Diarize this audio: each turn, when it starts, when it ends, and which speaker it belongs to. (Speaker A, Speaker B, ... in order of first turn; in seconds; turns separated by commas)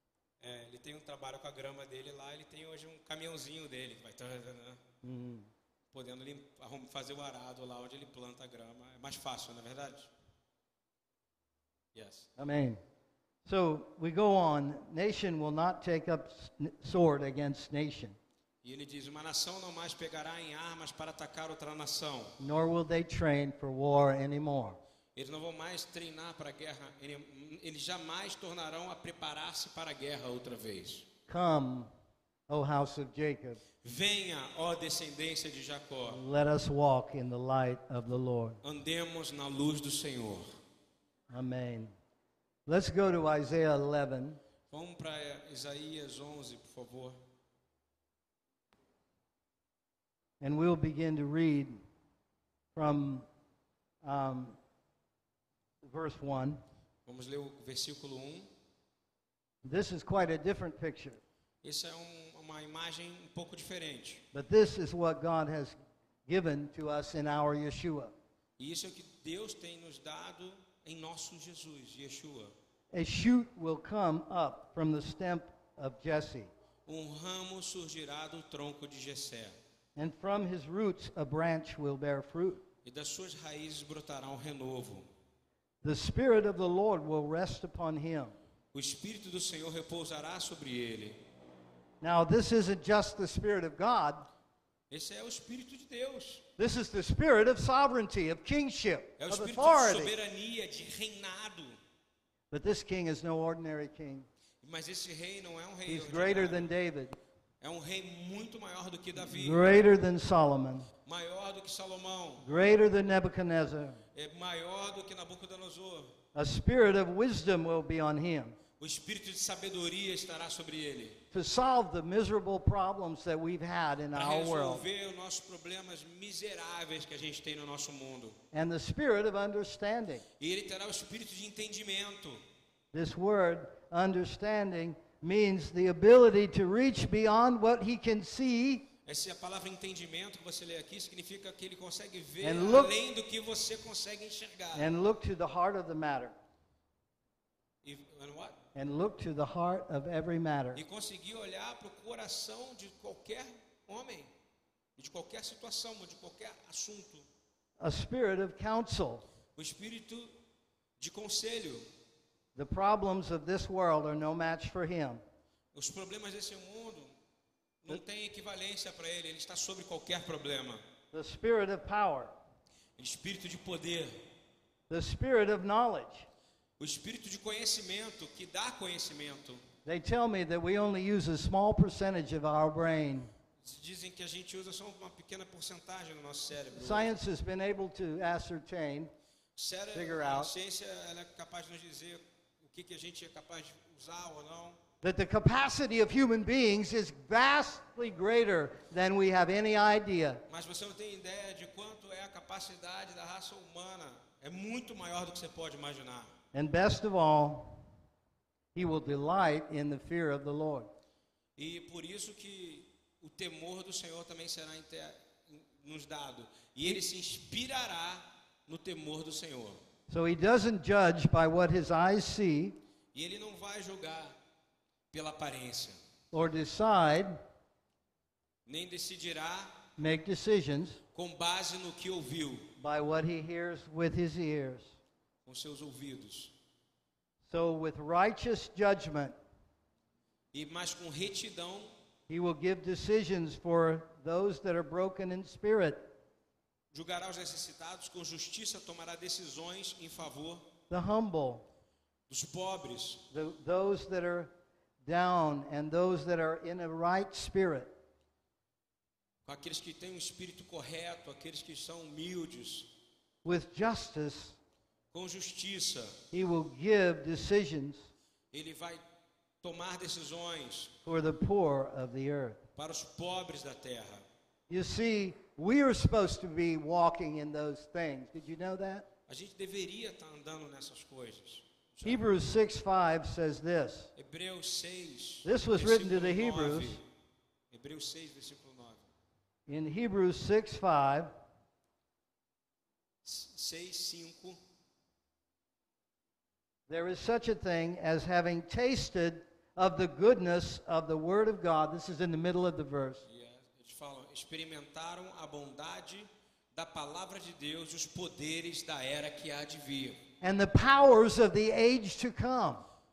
Speaker A: 0.4-4.8, Speaker B: 5.0-5.5, Speaker A: 5.9-10.1, Speaker A: 11.9-12.3, Speaker B: 12.4-12.8, Speaker B: 13.5-18.2, Speaker A: 18.6-22.4, Speaker B: 22.4-24.8, Speaker A: 25.1-31.1, Speaker B: 31.3-31.9, Speaker B: 32.5-33.6, Speaker A: 33.8-36.2, Speaker B: 36.1-38.6, Speaker A: 38.6-40.5, Speaker B: 41.3-41.9, Speaker B: 42.7-44.4, Speaker A: 44.7-47.2, Speaker B: 50.4-51.8, Speaker B: 52.8-53.3, Speaker B: 54.0-54.6, Speaker B: 55.8-56.6, Speaker A: 57.1-58.5, Speaker B: 59.6-61.2, Speaker A: 61.6-64.2, Speaker B: 64.3-65.8, Speaker B: 66.3-68.1, Speaker A: 68.6-72.5, Speaker B: 72.9-76.5, Speaker A: 76.9-79.6, Speaker B: 80.0-82.6, Speaker A: 82.8-85.1, Speaker B: 85.8-88.3, Speaker A: 88.7-91.2, Speaker B: 92.0-94.3, Speaker A: 94.9-96.4, Speaker B: 96.6-100.1, Speaker A: 99.2-101.8, Speaker B: 102.5-104.3, Speaker A: 104.6-106.7, Speaker B: 105.9-107.2, Speaker A: 107.6-109.9, Speaker B: 109.2-110.9, Speaker A: 111.1-112.5, Speaker B: 112.4-114.0, Speaker A: 114.2-116.1, Speaker B: 116.3-118.6, Speaker A: 118.8-121.2, Speaker B: 121.3-124.8, Speaker A: 124.1-128.4, Speaker B: 128.5-130.2, Speaker A: 130.4-132.4, Speaker B: 132.9-138.9, Speaker A: 139.1-144.9, Speaker B: 142.4-142.9, Speaker B: 144.7-146.3, Speaker A: 147.8-148.6, Speaker B: 148.8-150.8, Speaker A: 150.7-154.3, Speaker A: 155.0-157.3, Speaker B: 157.8-159.3, Speaker A: 159.6-160.3, Speaker A: 161.0-161.9, Speaker B: 162.6-165.2, Speaker A: 165.7-167.1, Speaker A: 167.8-170.8, Speaker B: 171.1-172.3, Speaker A: 173.0-174.2, Speaker B: 174.9-176.3, Speaker A: 176.8-179.6, Speaker B: 179.8-183.3, Speaker A: 183.6-187.1, Speaker B: 186.7-189.1, Speaker A: 189.6-194.8, Speaker B: 189.9-190.5, Speaker B: 195.0-200.4, Speaker A: 200.5-206.3, Speaker B: 206.5-207.8, Speaker B: 208.8-210.9, Speaker A: 211.6-219.8, Speaker B: 220.1-222.8, Speaker A: 223.1-224.4, Speaker A: 225.1-226.0, Speaker B: 226.3-227.4, Speaker A: 228.7-229.8, Speaker B: 230.0-231.0, Speaker A: 231.2-232.7, Speaker B: 232.8-234.9, Speaker A: 235.5-236.5, Speaker B: 237.5-239.3, Speaker A: 240.5-241.9, Speaker B: 242.3-246.1, Speaker A: 246.9-250.7, Speaker B: 250.9-251.7, Speaker A: 252.3-253.3, Speaker B: 253.3-257.9, Speaker A: 259.4-262.9, Speaker B: 263.4-264.6, Speaker A: 265.1-266.2, Speaker B: 266.3-268.1, Speaker A: 268.5-269.0, Speaker A: 269.6-270.9, Speaker B: 271.1-272.6, Speaker A: 272.8-274.2, Speaker B: 274.7-279.1, Speaker A: 279.3-282.2, Speaker B: 282.0-284.1, Speaker A: 284.2-287.0, Speaker B: 285.4-287.0, Speaker A: 287.7-289.1, Speaker B: 289.7-291.3, Speaker A: 293.2-294.6, Speaker B: 296.9-303.2, Speaker A: 303.3-310.2, Speaker B: 310.4-312.9